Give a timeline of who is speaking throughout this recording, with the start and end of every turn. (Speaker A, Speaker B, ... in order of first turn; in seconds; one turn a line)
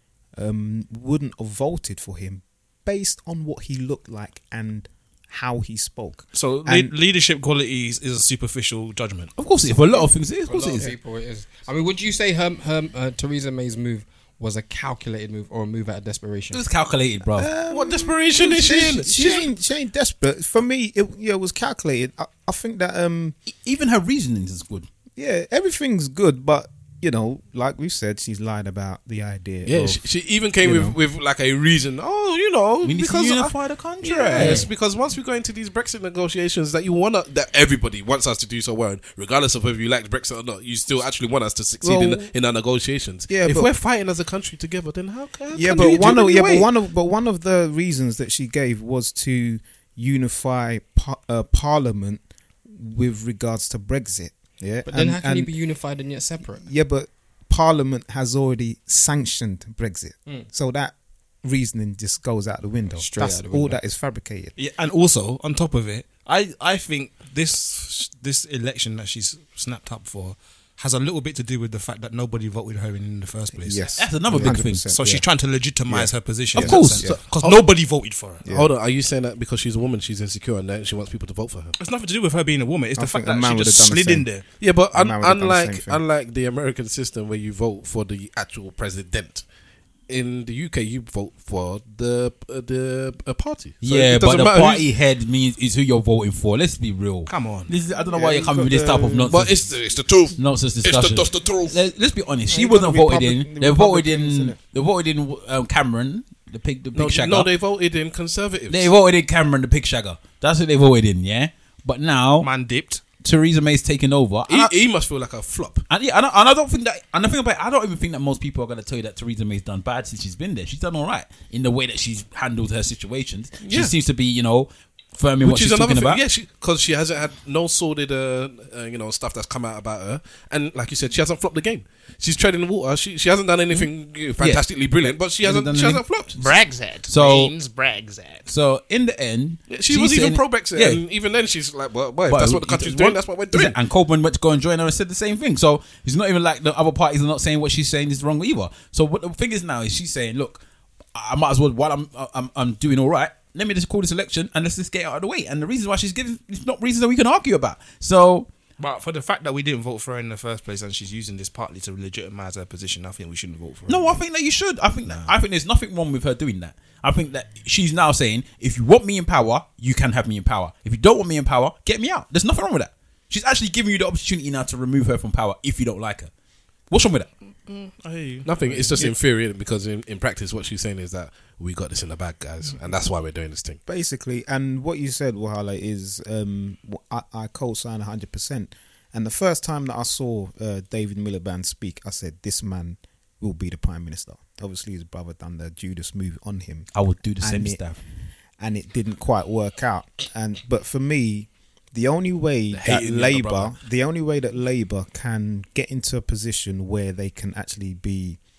Speaker A: 0.3-6.9
Speaker B: 6.3-9.3
Speaker C: 9.4-10.9
Speaker D: 9.9-16.6
Speaker C: 16.5-17.5
Speaker A: 17.3-23.4
Speaker E: 17.7-19.5
Speaker C: 23.5-24.9
Speaker A: 25.1-30.0
Speaker E: 29.6-46.7
Speaker A: 30.6-31.0
Speaker C: 32.8-34.7
Speaker D: 34.3-34.7
Speaker A: 41.8-42.2
Speaker A: 43.3-43.7
Speaker A: 45.5-55.5
Speaker D: 54.9-56.6
Speaker A: 56.5-64.5
Speaker D: 63.0-63.8
Speaker B: 64.5-74.0
Speaker A: 73.5-75.3
Speaker C: 74.0-74.9
Speaker B: 74.9-78.4
Speaker A: 75.9-77.2
Speaker C: 76.5-77.2
Speaker E: 76.8-77.6
Speaker A: 78.4-78.7
Speaker E: 78.4-81.8
Speaker B: 81.8-84.4
Speaker A: 83.0-84.3
Speaker E: 84.6-89.4
Speaker A: 84.9-86.0
Speaker E: 90.1-94.9
Speaker C: 93.8-99.7
Speaker B: 97.3-97.7
Speaker A: 97.9-99.4
Speaker E: 99.3-101.8
Speaker C: 100.4-107.5
Speaker A: 102.5-104.6
Speaker E: 106.9-108.9
Speaker C: 108.7-112.5
Speaker B: 112.4-113.0
Speaker C: 113.2-114.7
Speaker E: 114.5-115.8
Speaker C: 115.9-126.2
Speaker E: 123.6-123.9
Speaker E: 125.4-136.3
Speaker C: 133.7-136.5
Speaker B: 136.4-138.5
Speaker C: 137.1-137.6
Speaker C: 138.5-141.0
Speaker E: 139.7-143.8
Speaker C: 142.3-150.6
Speaker C: 151.1-158.5
Speaker B: 158.8-164.2
Speaker C: 163.9-176.3
Speaker C: 176.9-177.3
Speaker B: 177.7-179.1
Speaker E: 178.4-183.8
Speaker A: 183.9-197.8
Speaker C: 196.9-198.0
Speaker A: 198.6-208.4
Speaker E: 202.7-203.5
Speaker C: 202.8-203.7